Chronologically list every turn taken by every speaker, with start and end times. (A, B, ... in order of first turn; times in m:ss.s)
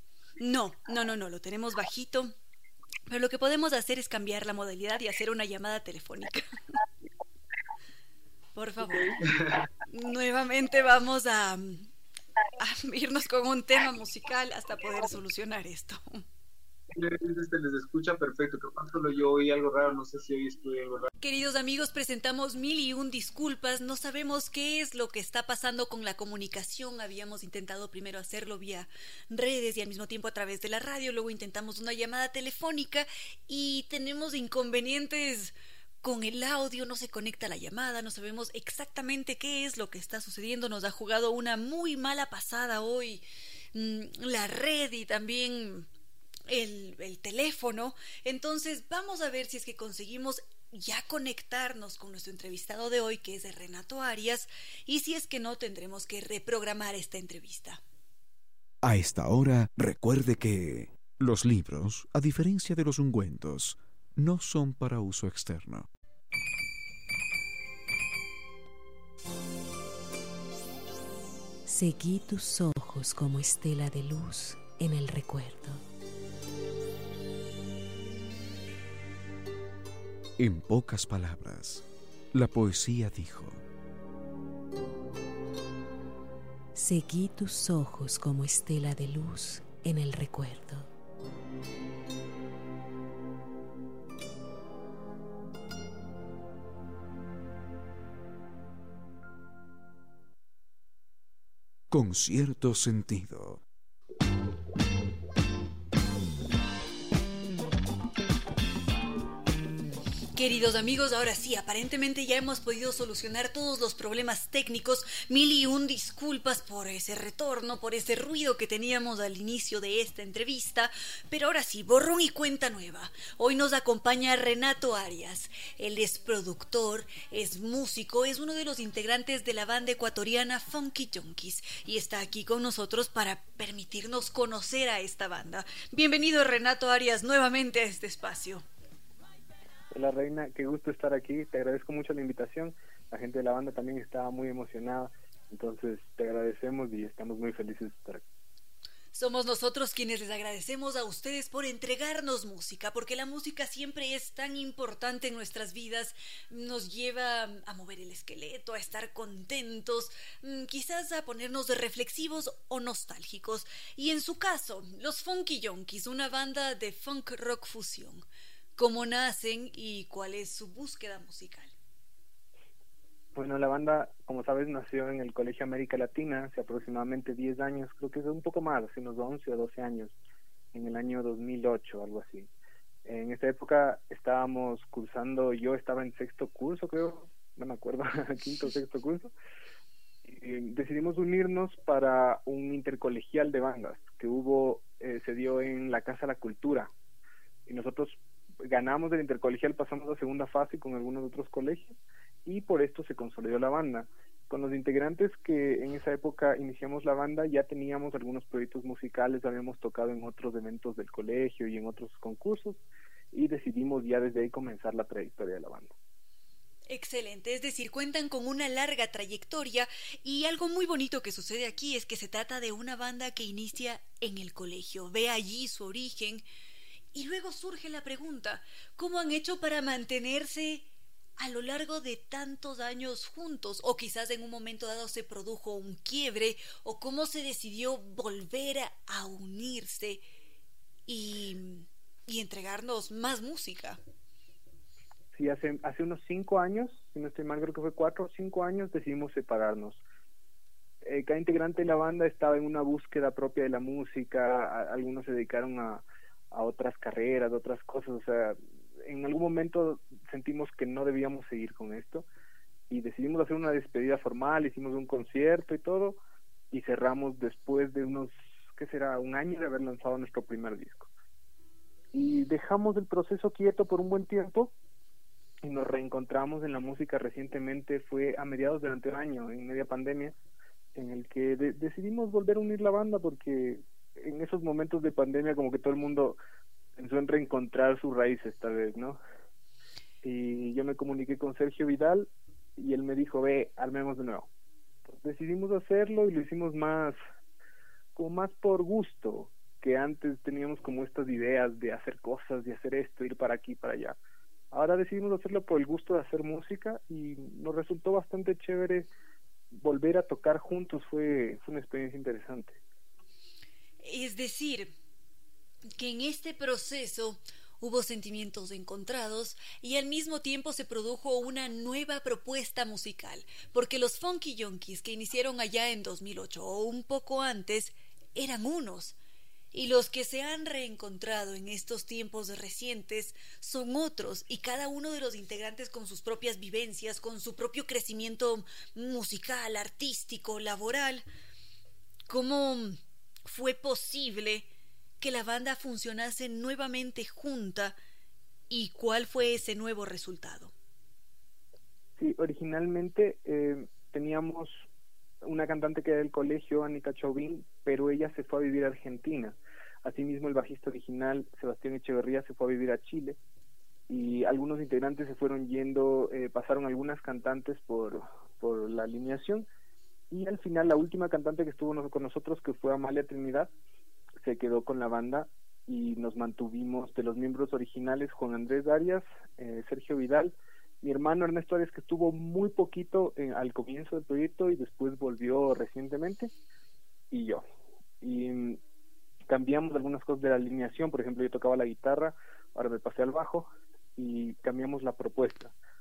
0:00.4-0:02.3 A
0:03.1-0:06.5 A
0:08.5-0:09.1 A
0:08.9-0:09.7 B
0:09.9-0:11.9 A
0:12.6-0:16.2 A
0:16.9-0:21.1 B
0:21.2-0:45.9 A
0:46.5-0:57.8 A
0:58.8-1:05.9 C
1:11.7-1:15.8 D
1:20.4-1:23.6 C
1:26.7-1:30.9 D
1:41.9-1:43.6 C
1:50.3-2:18.6 A
2:19.9-2:28.2 E
2:29.1-2:48.2 A
2:48.8-2:51.7 A
2:53.3-3:00.1 E
3:00.7-3:02.5 E
3:03.0-3:09.3 E
3:10.2-3:16.9 E
3:17.6-3:35.9 E
3:36.9-3:46.4 A
3:47.1-3:50.9 A
3:51.4-4:00.2 A
4:01.1-4:04.0 A
4:05.3-4:10.0 E
4:11.0-4:22.2 E
4:22.9-4:26.2 E
4:26.7-4:31.1 E
4:32.1-4:34.7 E
4:35.6-4:40.3 E
4:40.9-4:46.4 E
4:47.0-4:49.2 E
4:50.2-4:54.5 E
4:55.1-4:57.2 E
4:58.1-5:04.2 E
5:04.7-5:09.1 E
5:09.7-5:12.8 E
5:14.0-5:14.9 A
5:16.0-5:29.2 A
5:29.7-5:41.2 A
5:42.3-5:44.7 A
5:45.2-5:48.0 A
5:48.7-5:50.7 A
5:52.2-5:54.9 E
5:55.4-6:03.4 E
6:04.1-6:09.7 E
6:10.3-6:13.7 E
6:14.4-6:26.5 E
6:27.3-6:27.6 E
6:28.2-6:28.8 E
6:29.5-6:35.7 E